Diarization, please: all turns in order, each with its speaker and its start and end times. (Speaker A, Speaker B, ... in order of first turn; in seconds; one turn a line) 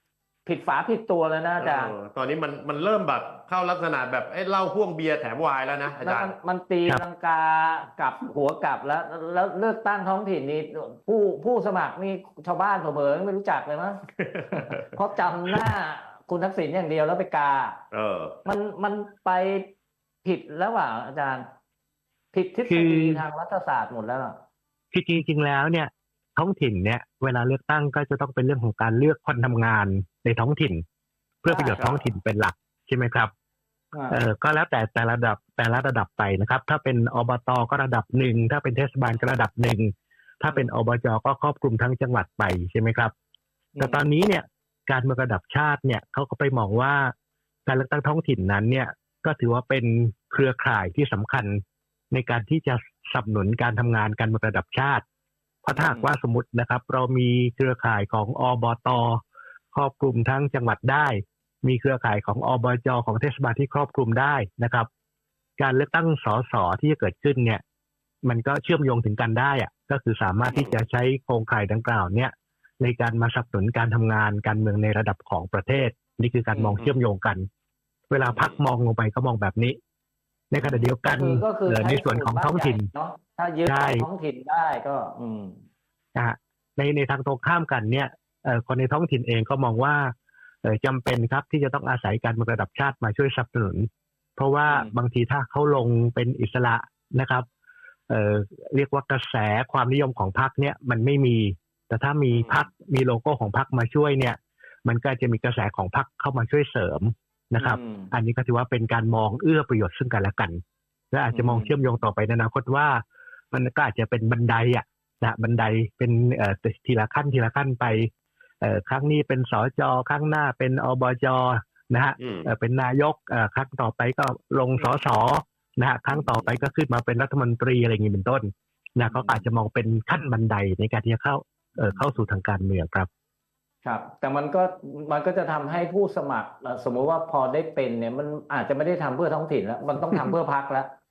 Speaker A: 0.5-1.9
Speaker B: 1.6-6.3
Speaker A: 5.9-17.9
Speaker B: 14.2-15.0
Speaker B: 17.9-18.4
Speaker A: 18.4-19.7
Speaker A: 20.2-21.5
Speaker A: 22.3-24.4
Speaker C: 22.7-23.2
Speaker C: 24.9-30.8
Speaker C: 31.4-33.3
Speaker A: 31.5-31.8
Speaker B: 31.8-32.1
Speaker A: 33.9-34.2
Speaker C: 34.1-43.1
Speaker A: 43.8-44.0
Speaker C: 43.8-47.1
Speaker C: 47.7-51.6
Speaker C: 52.1-55.0
Speaker C: 55.6-59.2
Speaker A: 55.7-56.1
Speaker C: 59.7-64.9
Speaker C: 65.6-67.6
Speaker C: 68.2-77.5
Speaker B: 70.5-70.8
Speaker A: 76.5-76.8
Speaker C: 78.1-79.8
Speaker C: 80.5-82.9
Speaker A: 80.6-85.6
Speaker C: 83.7-84.1
Speaker C: 86.2-90.1
Speaker C: 90.6-97.5
Speaker A: 94.7-94.9
Speaker C: 98.1-110.6
Speaker B: 102.3-102.6
Speaker A: 107.6-108.1
Speaker C: 111.1-113.0
Speaker A: 111.3-111.8
Speaker C: 113.5-118.1
Speaker C: 118.6-133.1
Speaker B: 122.2-122.5
Speaker A: 129.1-129.4
Speaker A: 133.8-140.9